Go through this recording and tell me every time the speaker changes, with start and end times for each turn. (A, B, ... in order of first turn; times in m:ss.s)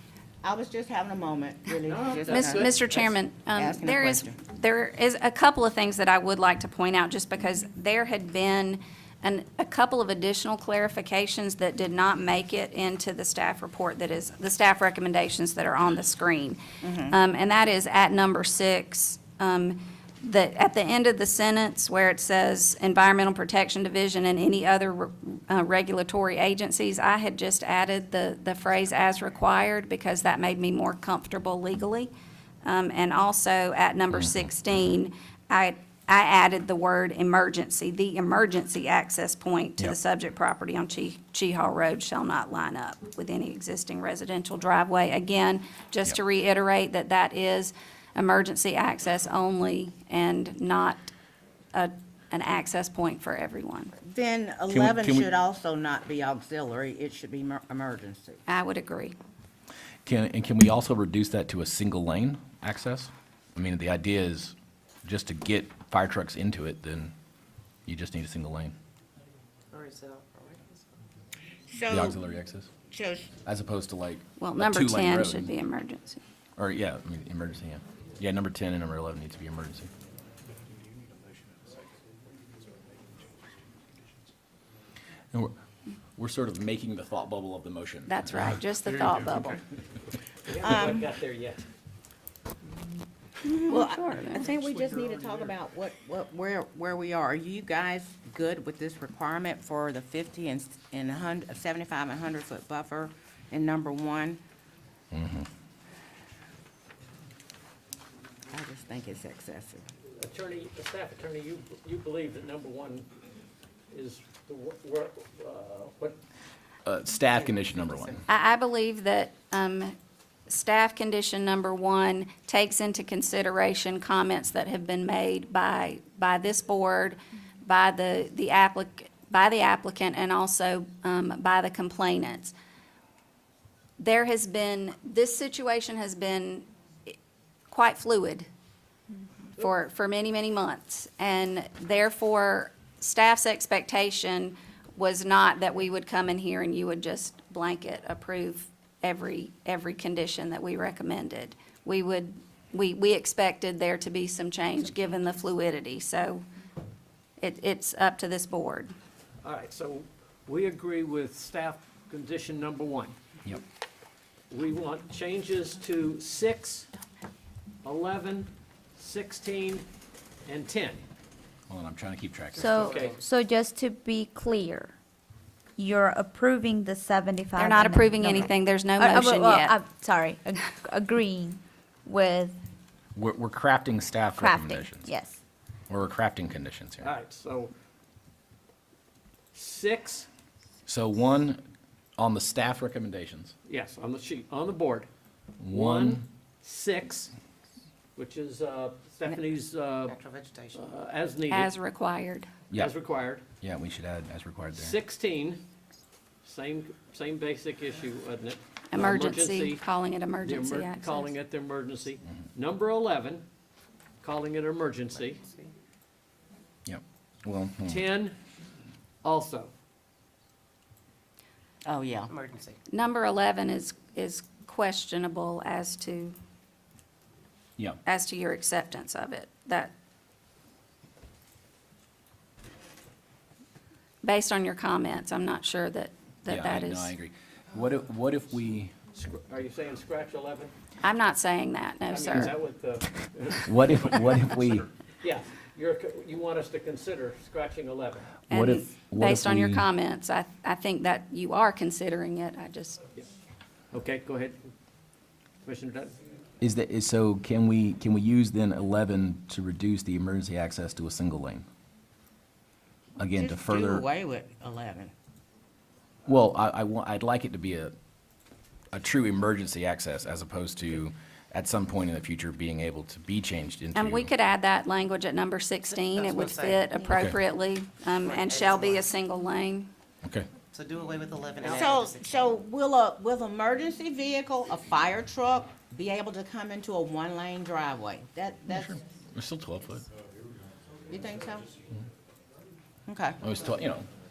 0:00.4-0:02.9 A
0:01.8-0:03.1 B
0:02.3-0:32.1 C
0:03.5-0:04.4 A
0:16.8-0:17.2 A
0:32.6-0:51.1 C
0:34.1-0:34.5 D
0:51.7-0:53.9 C
0:54.0-0:58.4 A
0:54.7-0:55.3 D
0:58.5-0:59.1 C
1:00.0-1:07.1 D
1:07.9-1:08.7 D
1:09.7-1:10.8 E
1:11.7-1:12.2 A
1:11.9-1:12.7 D
1:12.9-1:13.3 A
1:13.4-1:15.5 D
1:14.4-1:16.2 C
1:16.6-1:19.9 D
1:26.2-1:28.3 D
1:28.0-1:29.6 C
1:30.4-1:31.6 B
1:30.6-1:31.1 A
1:33.5-1:44.4 A
1:33.6-1:34.5 C
1:34.4-1:35.5 B
1:45.1-1:45.5 D
1:48.5-1:49.8 A
1:50.2-1:53.1 B
1:53.9-1:56.2 B
1:56.8-1:58.2 D
1:58.3-1:59.9 C
2:00.5-2:12.5 C
2:14.0-2:17.2 C
2:17.7-2:18.5 C
2:19.6-2:36.4 C
2:37.4-2:38.9 C
2:39.4-2:43.1 B
2:44.5-2:46.9 B
2:47.8-2:49.8 B
2:50.4-2:51.0 B
2:51.7-2:52.8 D
2:52.6-2:54.9 F
2:52.7-2:53.2 B
2:52.8-2:53.1 E
2:55.8-2:58.4 F
2:57.6-2:59.8 C
2:59.0-3:02.5 F
3:03.1-3:05.1 D
3:04.4-3:05.4 F
3:05.9-3:07.1 D
3:07.0-3:07.7 B
3:09.5-3:10.3 B
3:10.8-3:11.6 D
3:12.2-3:13.5 D
3:13.6-3:15.1 B
3:15.6-3:16.2 D
3:15.6-3:17.3 B
3:18.2-3:20.2 B
3:20.1-3:20.8 E
3:20.7-3:21.7 B
3:21.5-3:22.5 C
3:22.7-3:23.4 B
3:23.6-3:25.0 D
3:24.7-3:25.6 B
3:26.4-3:29.8 B
3:28.9-3:31.3 C
3:30.4-3:33.4 B
3:34.2-3:35.4 B
3:35.3-3:35.7 E
3:36.8-3:38.0 D
3:37.8-3:38.4 B
3:39.2-3:39.7 B
3:41.8-3:42.3 A
3:42.3-3:42.7 E
3:42.9-3:46.3 C
3:48.0-3:49.9 C
3:54.2-3:57.1 C
3:56.5-3:59.0 D
3:59.1-4:00.7 B
4:01.0-4:02.6 C
4:02.1-4:08.3 B
4:03.6-4:04.9 D
4:08.5-4:09.9 D
4:08.5-4:13.0 C
4:13.9-4:14.6 B
4:15.6-4:16.1 B
4:16.6-4:21.6 D
4:23.2-4:24.0 D
4:23.3-4:25.1 A
4:26.2-4:27.9 D
4:28.9-4:34.3 D
4:33.9-4:39.9 C
4:35.8-4:37.2 E
4:38.2-4:39.0 E
4:40.7-4:42.3 E
4:41.6-4:49.0 A
4:48.7-4:50.0 D
4:51.1-4:51.6 A
4:53.1-4:53.4 A
4:53.4-4:54.1 D